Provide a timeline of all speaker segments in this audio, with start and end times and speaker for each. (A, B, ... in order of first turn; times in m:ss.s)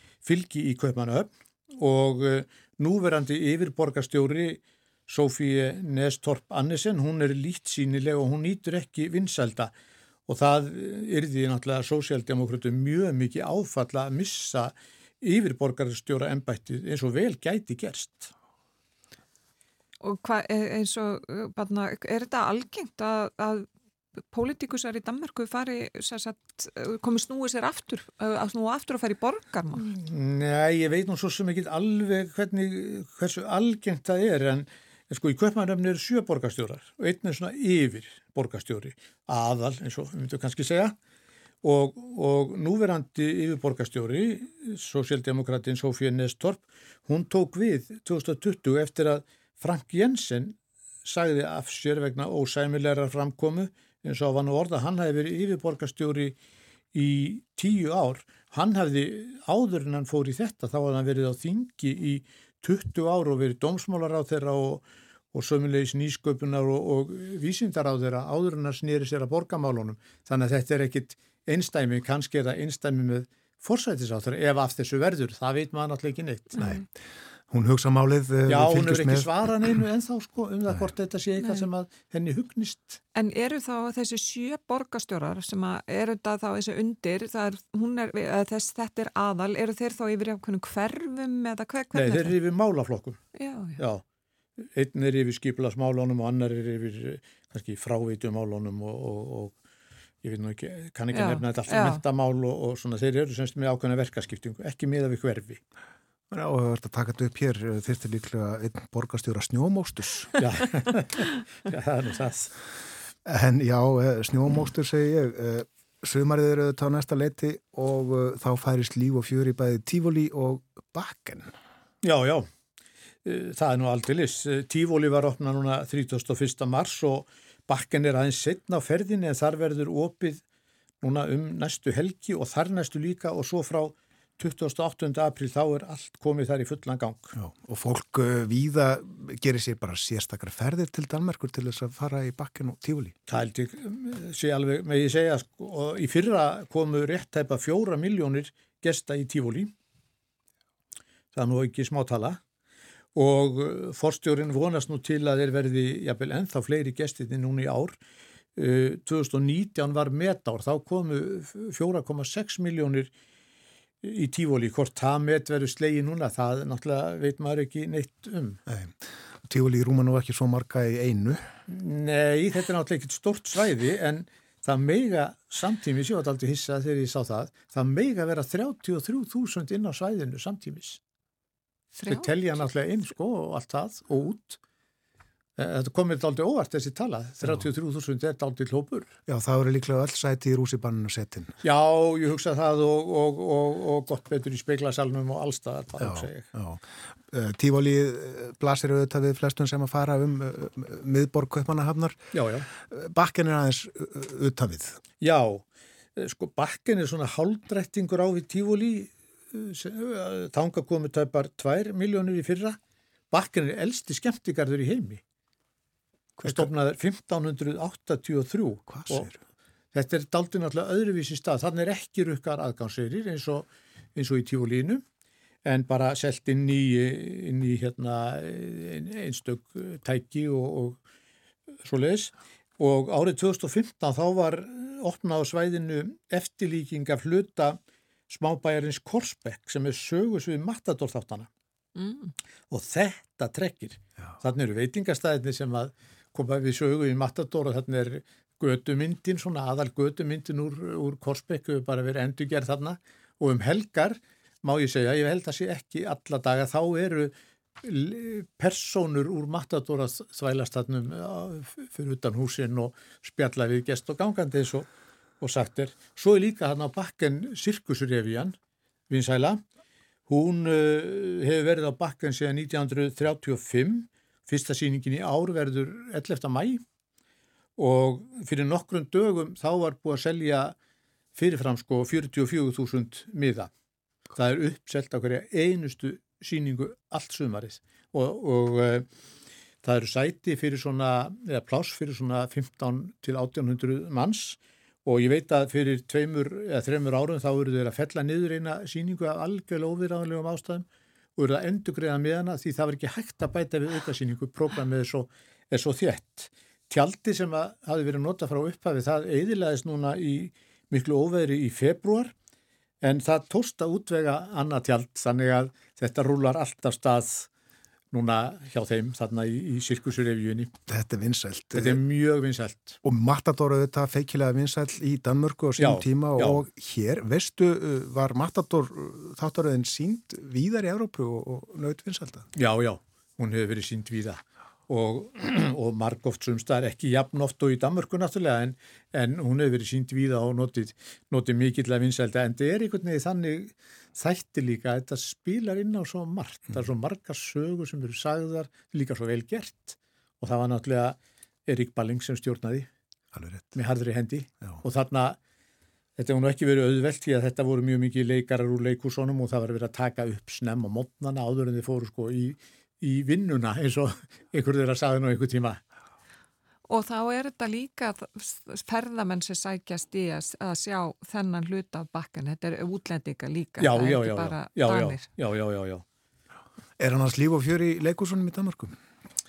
0:00.2-0:09.7 A
0:10.3-0:18.3 A
0:20.0-0:23.7 B
0:24.3-0:29.9 B
0:29.8-0:41.0 A
0:41.6-0:56.4 A
0:56.9-1:16.7 A
1:16.6-1:16.8 C
1:17.5-1:19.7 C
1:18.5-1:23.0 A
1:23.1-1:32.4 B
1:31.9-1:33.2 A
1:33.3-1:33.8 B
1:33.8-1:34.0 A
1:34.7-1:39.6 A
1:40.2-1:45.6 A
1:41.1-1:42.0 B
1:46.3-1:50.4 C
1:50.4-1:52.5 A
1:53.2-2:01.5 C
2:02.0-2:02.5 A
2:03.2-2:10.4 A
2:11.0-2:17.3 A
2:17.4-2:23.1 C
2:23.3-2:29.7 A
2:31.3-2:32.4 A
2:33.1-2:38.0 A
2:38.6-2:43.1 A
2:44.0-2:48.6 A
2:48.7-2:51.5 C
2:51.7-3:01.0 A
3:01.9-3:02.3 B
3:02.0-3:04.6 A
3:05.6-3:09.1 A
3:09.3-3:11.6 C
3:11.6-3:16.5 A
3:16.0-3:25.0 C
3:22.3-3:22.7 A
3:25.2-3:25.6 A
3:26.2-3:32.8 A
3:33.3-3:35.2 A
3:36.4-3:36.7 C
3:36.4-3:39.3 A
3:38.9-3:39.4 C
3:39.9-3:45.0 A
3:45.6-3:51.0 A
3:51.8-3:57.8 A
3:58.3-4:01.5 A
4:02.0-4:02.3 B
4:02.7-4:24.9 A
4:25.4-4:28.5 A
4:29.1-4:29.6 A
4:30.3-4:36.8 A
4:37.8-4:40.7 A
4:41.3-4:43.7 A
4:44.3-4:49.1 A
4:49.8-5:00.8 A
5:01.4-5:12.3 A
5:13.0-5:17.5 A
5:18.1-5:20.7 A
5:20.9-5:22.0 C
5:21.7-5:23.0 A
5:23.0-5:32.5 C
5:25.8-5:26.6 A
5:32.5-5:52.9 A
5:53.3-5:53.8 C
5:53.7-5:55.4 A
5:56.2-6:05.8 A
6:06.9-6:15.3 B
6:13.8-6:16.0 A
6:17.0-6:19.0 C